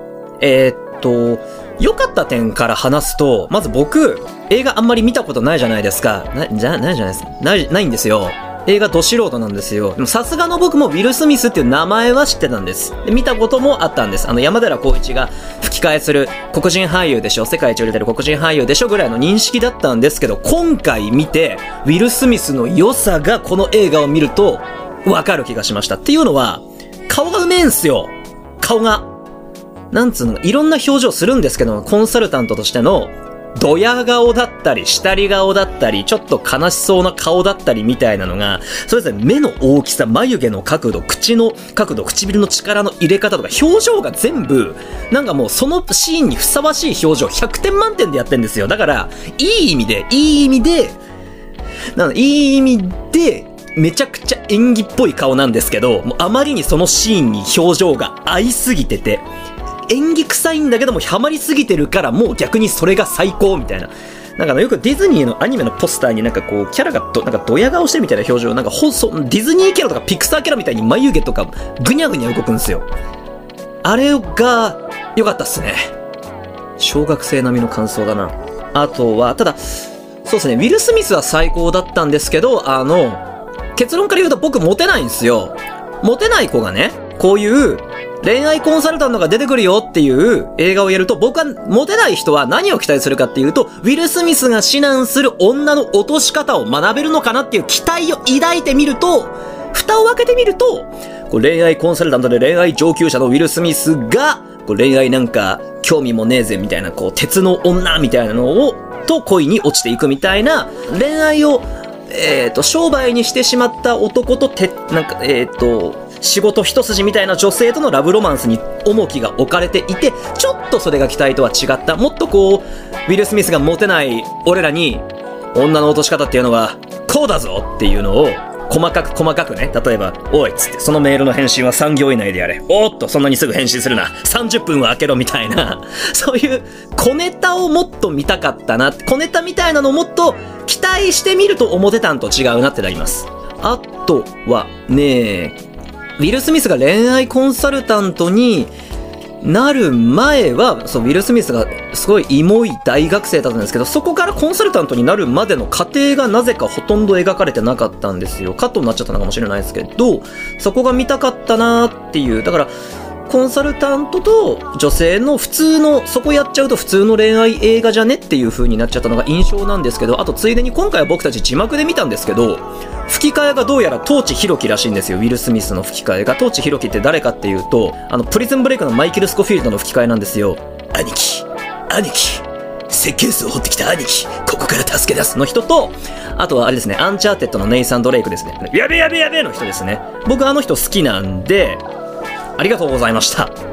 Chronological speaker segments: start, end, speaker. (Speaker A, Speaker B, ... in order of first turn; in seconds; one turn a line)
Speaker A: 0.4-29.1
Speaker A: 29.9-51.0
Speaker A: 51.9-59.2
Speaker A: 59.9-72.8
Speaker A: 73.8-75.9
Speaker A: 76.8-83.2
Speaker A: 83.7-145.6
Speaker A: 146.2-148.7
Speaker A: 149.4-162.7
Speaker A: 163.3-191.8
Speaker A: 192.6-193.5